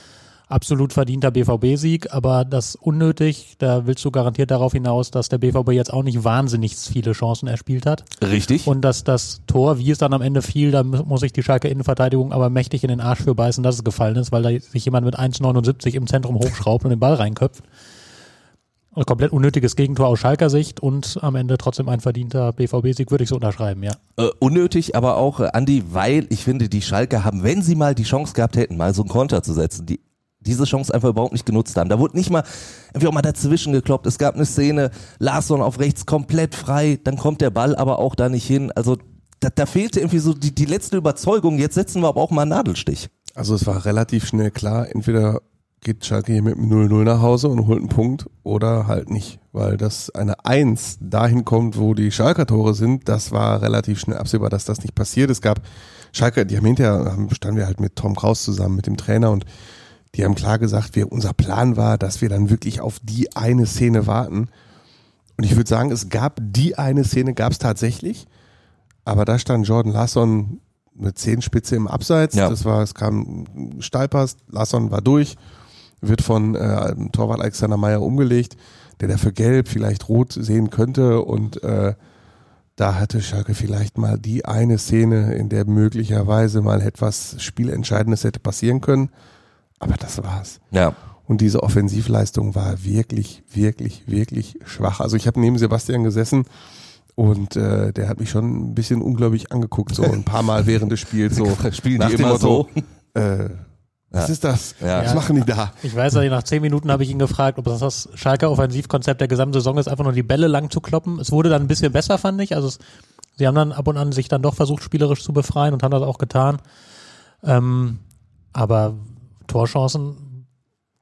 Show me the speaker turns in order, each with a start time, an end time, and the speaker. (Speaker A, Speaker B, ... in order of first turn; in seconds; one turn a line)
Speaker A: 0.5-8.1
Speaker B: 8.2-8.7
Speaker A: 8.7-17.7
Speaker A: 18.9-24.0
Speaker B: 24.2-43.1
Speaker C: 43.4-59.5
Speaker C: 60.1-64.5
Speaker C: 65.4-68.3
Speaker C: 69.1-75.4
Speaker C: 76.0-82.0
Speaker C: 82.8-89.1
Speaker C: 89.8-90.6
Speaker C: 91.3-96.5
Speaker C: 97.2-103.6
Speaker B: 101.3-102.8
Speaker B: 104.1-105.2
Speaker C: 104.2-105.8
Speaker A: 105.0-105.2
Speaker A: 105.8-112.8
Speaker A: 113.4-116.6
Speaker A: 117.4-118.0
Speaker A: 118.5-120.4